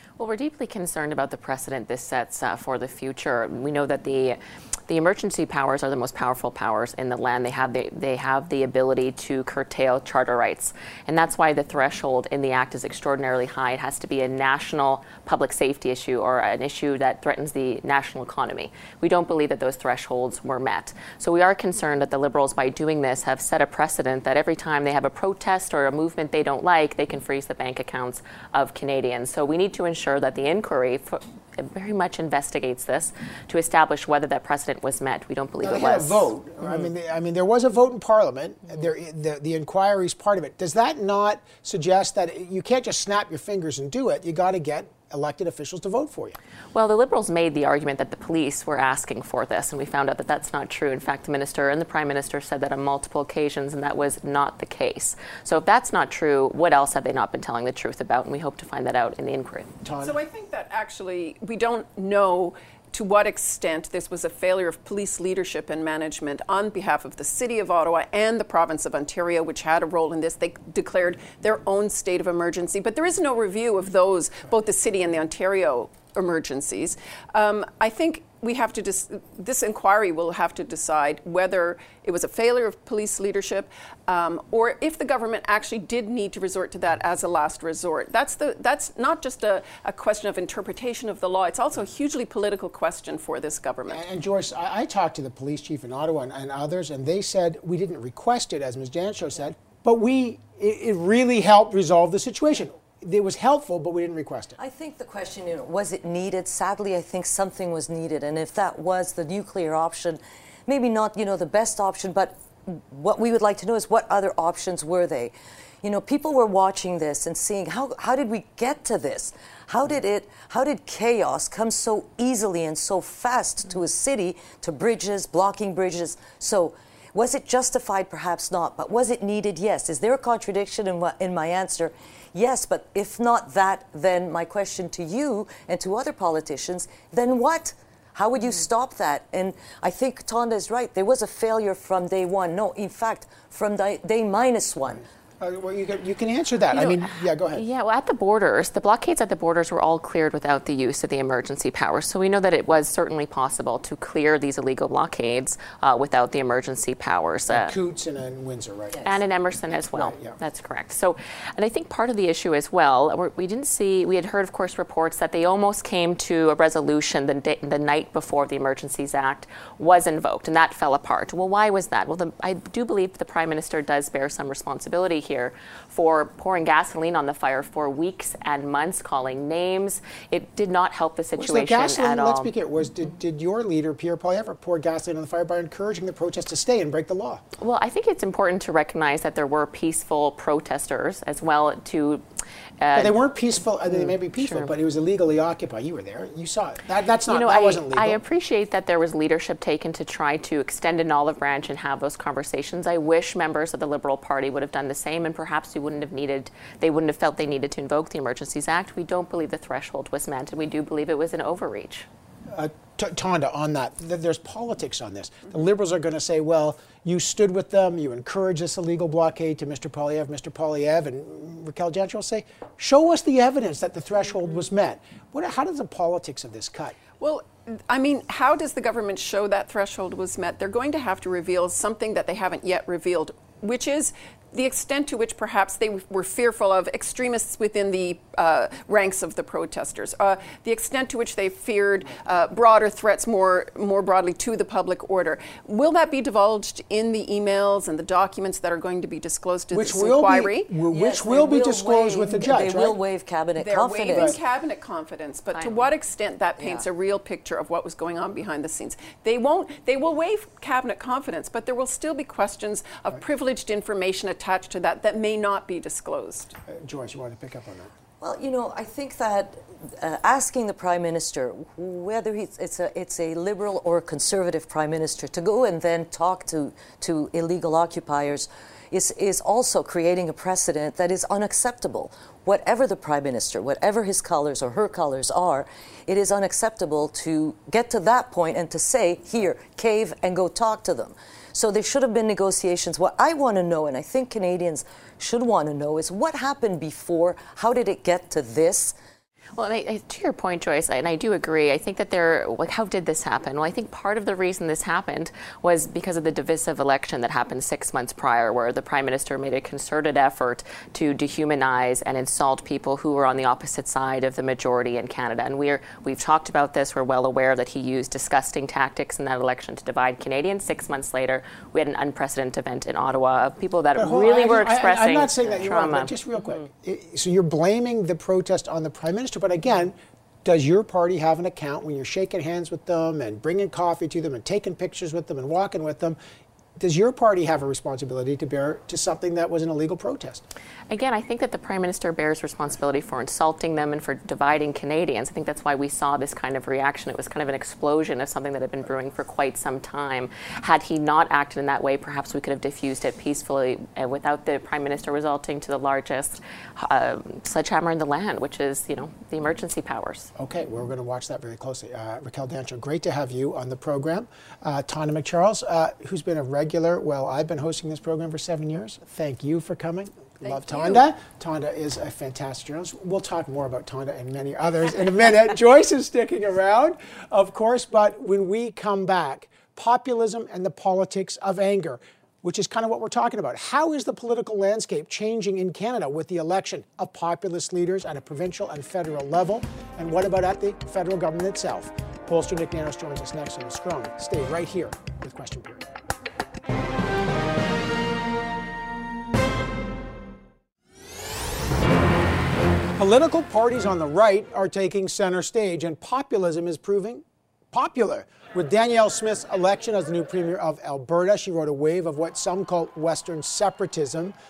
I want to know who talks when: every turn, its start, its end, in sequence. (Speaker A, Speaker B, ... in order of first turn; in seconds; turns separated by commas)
Speaker A: 0.2-36.3, Speaker B: 35.6-46.4, Speaker A: 46.7-59.7, Speaker B: 59.8-60.2, Speaker C: 60.0-94.0, Speaker B: 93.9-104.5, Speaker D: 104.6-145.0, Speaker B: 145.4-147.6, Speaker A: 146.7-157.7, Speaker B: 157.5-159.2, Speaker A: 159.0-182.5, Speaker B: 159.9-160.3, Speaker B: 181.3-187.4, Speaker A: 187.6-192.2, Speaker A: 192.8-193.2, Speaker B: 192.9-198.2, Speaker A: 193.9-194.7, Speaker A: 197.3-212.1, Speaker B: 212.5-227.0, Speaker C: 227.2-250.7, Speaker B: 249.7-253.0, Speaker D: 250.9-254.4, Speaker C: 253.6-266.6, Speaker A: 255.5-255.9, Speaker B: 266.7-267.9, Speaker D: 268.2-298.9, Speaker A: 299.6-326.5, Speaker B: 323.9-336.2, Speaker B: 336.8-340.4, Speaker A: 340.9-360.3, Speaker B: 360.4-395.8, Speaker C: 370.4-371.0, Speaker B: 403.0-414.3